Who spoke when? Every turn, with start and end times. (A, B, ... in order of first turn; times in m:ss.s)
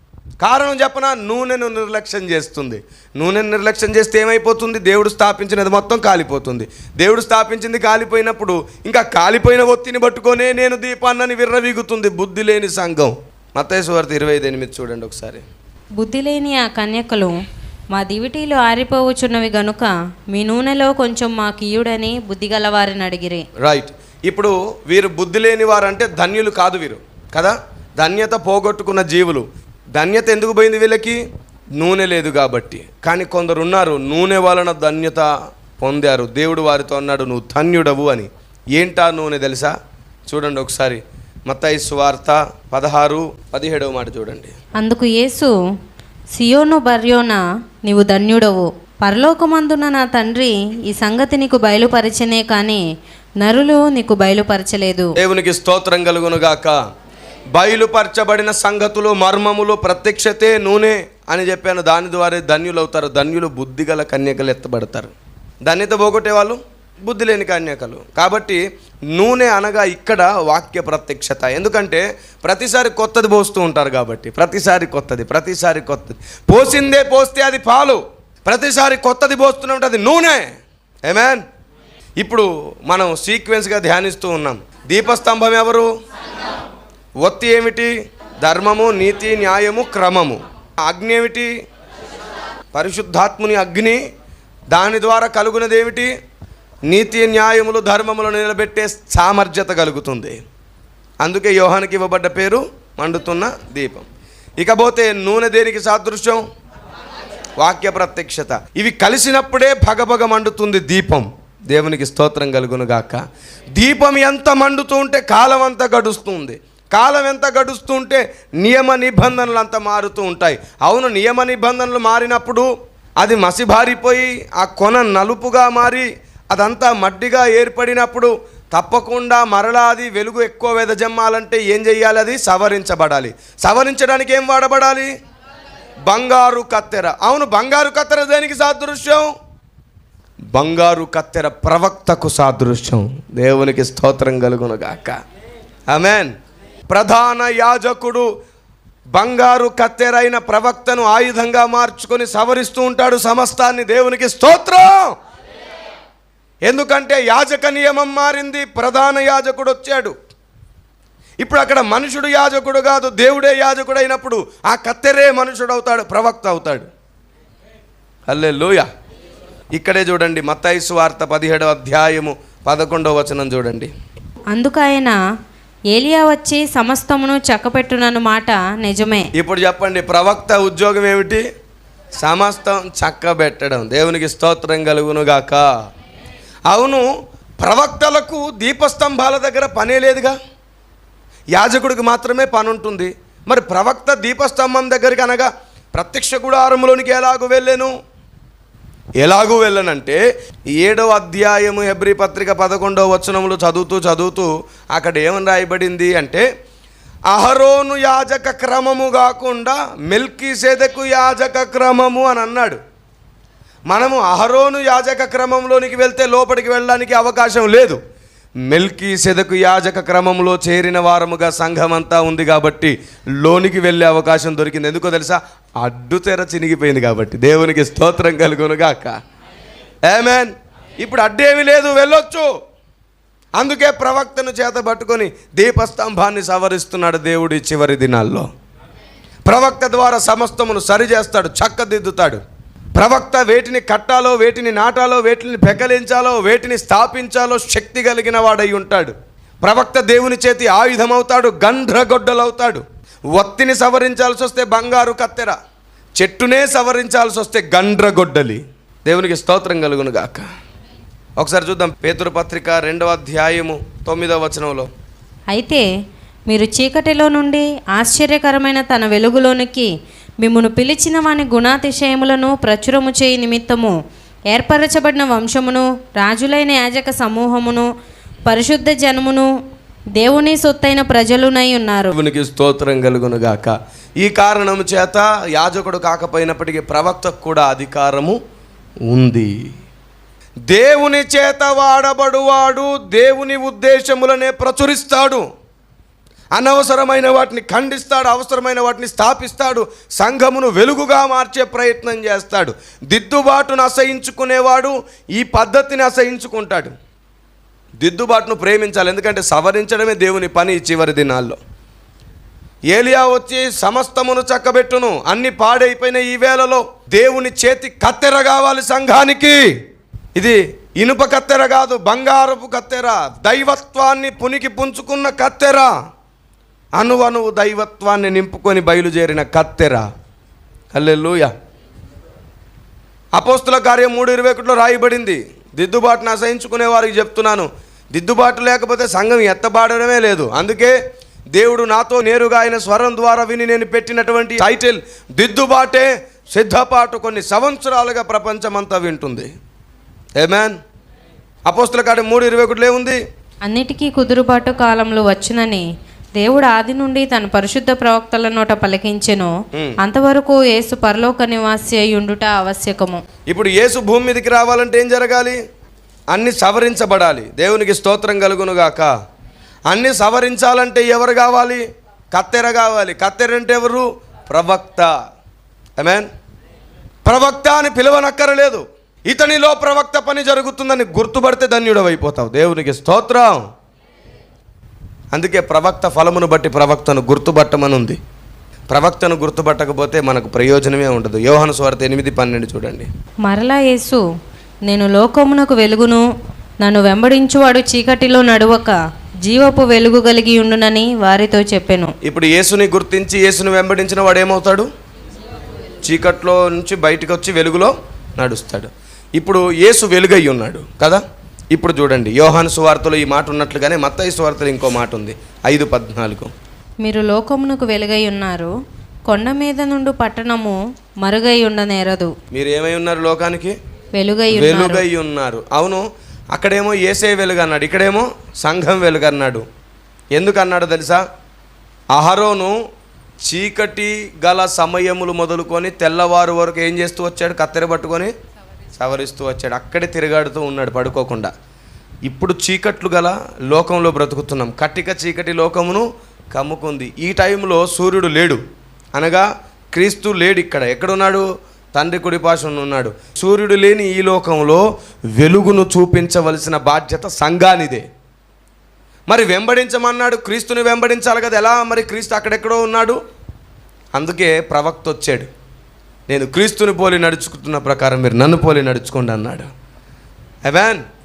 0:00.4-0:15.4 A
0:16.0-0:17.3 B
0:17.9-0:23.5 B
0:23.6-0:29.4 A
0:30.0-0:31.2 A
0:31.8-0:35.3 A
0:35.8-0:39.7 A
0:40.3-0:44.5 A
0:44.8-0:45.5 B
0:46.3-0:52.8 B
0:53.4-0:55.1 B
0:55.2-0:56.8 A
0:57.6-1:05.1 A
1:05.6-1:08.6 A
1:09.1-1:20.5 A
1:21.0-1:21.4 A
1:22.2-1:25.9 A
1:27.2-1:31.5 A
1:32.7-1:34.0 A
1:34.7-1:36.1 A
1:36.9-1:40.4 A
1:41.2-1:44.1 A
1:44.6-1:46.4 A
1:47.6-1:53.2 A
1:53.8-2:02.7 A
2:03.2-2:15.1 A
2:16.1-2:19.3 A
2:20.5-2:25.2 A
2:25.9-2:26.3 A
2:26.9-2:28.3 A
2:29.2-2:35.1 A
2:36.6-2:40.1 A
2:41.4-2:46.9 A
2:48.3-2:48.9 A
2:49.7-2:53.9 A
2:54.5-2:55.2 B
2:55.9-2:59.3 B
2:59.3-3:01.4 A
3:02.2-3:05.6 A
3:06.7-3:07.1 A
3:07.6-3:10.4 A
3:11.6-3:17.9 A
3:19.2-3:20.2 A
3:20.8-3:26.4 A
3:27.3-3:32.8 A
3:33.9-3:38.0 A
3:38.7-3:49.2 A
3:50.0-3:52.5 A
3:53.6-3:58.5 A
3:59.4-4:02.4 A
4:03.0-4:12.8 A
4:13.3-4:15.6 A
4:16.2-4:20.5 A
4:21.4-4:24.9 A
4:25.5-4:25.9 B
4:26.5-4:34.0 B
4:34.5-4:37.9 B
4:38.4-4:39.5 B
4:40.2-4:42.1 B
4:42.1-4:48.4 A
4:49.1-4:49.5 A
4:50.7-4:55.4 A
4:56.5-5:06.9 A
5:08.0-5:11.6 A
5:12.9-5:19.7 A
5:20.4-5:25.9 A
5:27.0-5:30.1 A
5:30.9-5:31.5 A
5:33.3-5:41.0 A
5:41.6-5:49.5 A
5:50.4-5:50.8 A
5:51.6-5:53.2 A
5:53.6-6:03.2 B
6:03.5-6:05.6 A
6:06.3-6:09.1 A
6:09.9-6:15.1 A
6:16.0-6:16.3 A
6:17.2-6:23.6 A
6:25.3-6:28.2 A
6:28.9-6:33.1 A
6:33.4-6:34.2 B
6:34.8-6:36.2 B
6:36.8-6:42.1 B
6:42.2-6:44.9 A
6:46.0-6:51.2 A
6:51.7-6:56.5 A
6:57.0-6:58.7 B
6:59.3-7:02.3 B
7:02.5-7:03.7 A
7:04.1-7:05.0 B
7:04.5-7:09.6 A
7:10.3-7:11.2 A
7:12.1-7:12.7 A
7:13.4-7:18.3 A
7:19.0-7:21.5 A
7:22.2-7:28.6 A
7:29.2-7:38.0 A
7:39.3-7:43.2 A
7:44.1-7:45.5 A
7:46.3-7:49.7 A
7:50.6-7:51.0 A